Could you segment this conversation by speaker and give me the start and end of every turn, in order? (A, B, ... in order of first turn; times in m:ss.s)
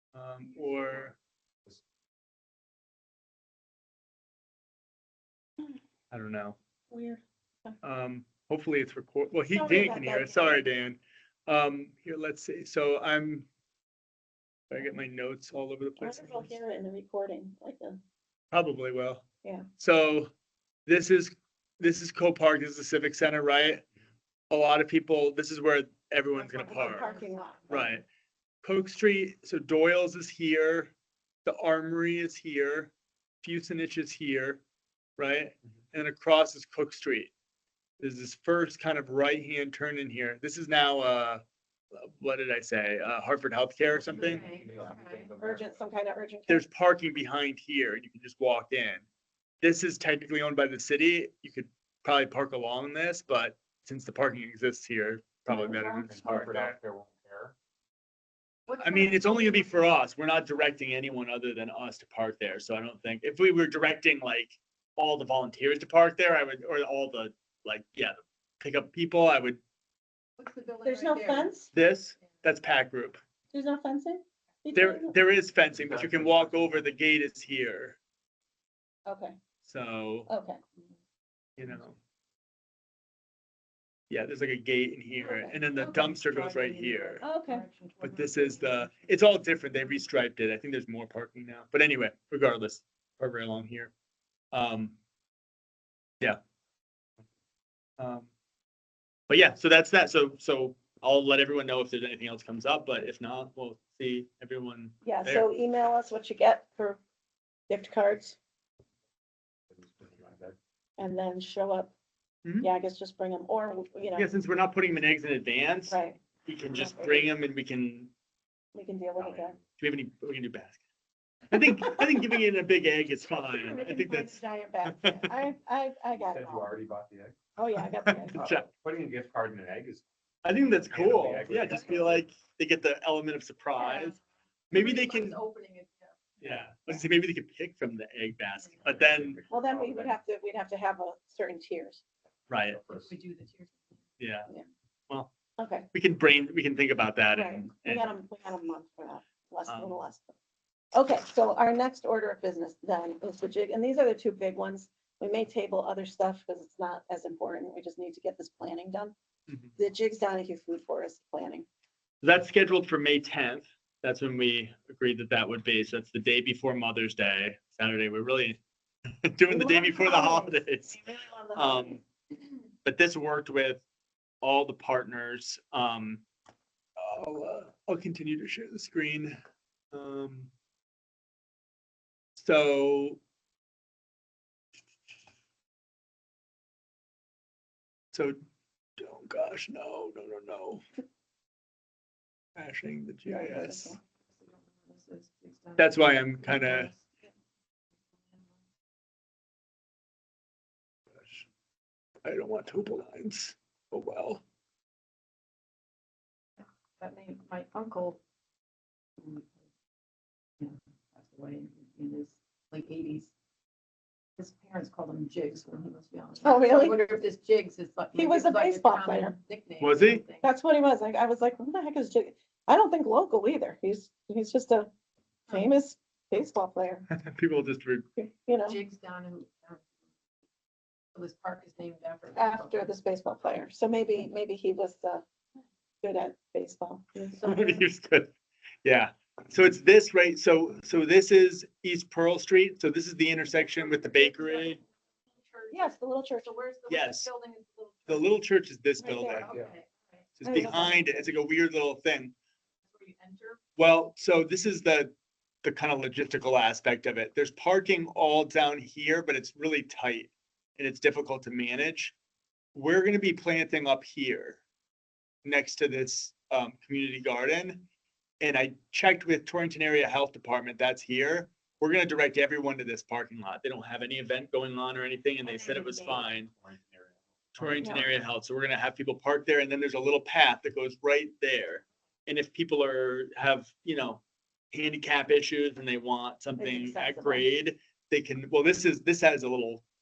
0:00.1-0:01.2 A
0:06.1-0:06.6 A
0:06.9-0:07.8 B
0:07.8-0:13.5 A
0:09.5-0:10.6 B
0:14.7-0:16.6 A
0:16.0-0:18.0 B
0:18.5-0:19.2 A
0:19.8-0:20.3 A
0:20.9-0:23.8 A
0:24.5-0:27.1 A
0:26.4-0:27.9 C
0:26.6-0:27.9 B
0:27.7-0:28.0 A
0:28.6-0:30.9 A
0:31.4-0:34.6 A
0:35.2-0:37.3 A
0:38.0-0:41.4 A
0:42.0-0:44.4 A
0:43.9-0:45.3 C
0:44.0-0:45.8 D
0:45.4-0:46.6 B
0:46.5-0:49.0 A
0:49.6-0:56.8 A
0:55.6-0:57.5 D
0:58.7-0:59.9 C
0:58.8-1:09.6 A
1:10.4-1:11.6 C
1:10.8-1:11.7 B
1:11.7-1:13.2 A
1:13.5-1:15.2 B
1:14.7-1:18.0 A
1:15.7-1:16.9 D
1:19.1-1:19.4 B
1:19.6-1:20.3 A
1:20.3-1:20.6 B
1:21.6-1:22.0 A
1:24.1-1:27.2 A
1:25.2-1:25.7 B
1:25.8-1:29.2 C
1:27.2-1:27.6 B
1:28.0-1:33.9 A
1:34.5-1:35.0 A
1:38.0-1:38.3 A
1:39.3-1:45.4 A
1:45.0-1:47.0 B
1:47.7-1:48.4 B
1:49.7-1:50.6 D
1:51.0-1:51.9 B
1:52.6-1:54.3 B
1:54.2-1:58.1 A
1:55.9-1:57.3 B
1:58.7-1:59.6 B
1:59.2-1:59.6 D
1:59.8-2:00.8 A
2:01.5-2:05.4 A
2:01.6-2:02.2 B
2:03.5-2:06.7 B
2:06.2-2:07.4 D
2:07.6-2:08.4 B
2:07.8-2:08.7 A
2:08.3-2:10.0 D
2:10.4-2:14.2 A
2:10.9-2:12.3 D
2:13.8-2:14.2 C
2:14.7-2:15.4 A
2:14.7-2:16.2 C
2:16.4-2:19.4 A
2:18.8-2:20.2 D
2:19.5-2:22.0 B
2:22.5-2:22.8 A
2:22.7-2:23.1 D
2:22.9-2:24.0 C
2:24.2-2:24.5 A
2:25.6-2:25.9 B
2:25.9-2:28.1 A
2:27.3-2:30.3 B
2:29.7-2:30.0 A
2:30.9-2:39.2 B
2:39.8-2:41.7 B
2:42.2-2:48.6 A
2:49.2-2:51.0 A
2:49.5-2:52.0 B
2:51.5-2:52.0 A
2:52.8-2:53.8 A
2:54.4-2:56.2 A
2:57.0-2:59.4 A
2:59.9-3:00.5 A
3:02.4-3:03.2 A
3:08.1-3:08.4 A
3:09.0-3:10.8 A
3:12.6-3:14.0 A
3:13.3-3:14.0 B
3:14.3-3:17.3 C
3:15.8-3:16.9 A
3:21.2-3:21.4 A
3:22.2-3:24.4 A
3:27.0-3:28.2 C
3:29.2-3:29.5 C
3:30.6-3:33.3 C
3:34.4-3:40.5 C
3:36.4-3:37.0 B
3:38.2-3:39.4 B
3:39.8-3:40.2 A
3:40.4-3:44.9 B
3:45.5-3:47.1 B
3:47.1-3:48.1 A
3:48.2-3:48.8 B
3:48.7-3:49.8 C
3:51.2-3:52.9 C
3:52.4-3:55.2 B
3:56.0-3:57.6 B
3:57.3-3:57.7 C
3:57.4-3:58.3 A
3:58.8-4:04.8 A
4:03.8-4:04.8 C
4:05.4-4:08.4 C
4:05.7-4:06.5 B
4:06.9-4:07.3 A
4:08.1-4:09.5 A
4:09.0-4:09.5 B
4:09.3-4:10.2 C
4:10.4-4:12.3 A
4:10.4-4:11.1 B
4:12.9-4:13.6 C
4:13.8-4:22.2 A
4:22.7-4:24.6 A
4:25.4-4:27.8 A
4:28.4-4:36.5 A
4:35.4-4:36.0 C
4:35.9-4:38.1 D
4:37.5-4:49.8 A
4:46.6-4:47.5 B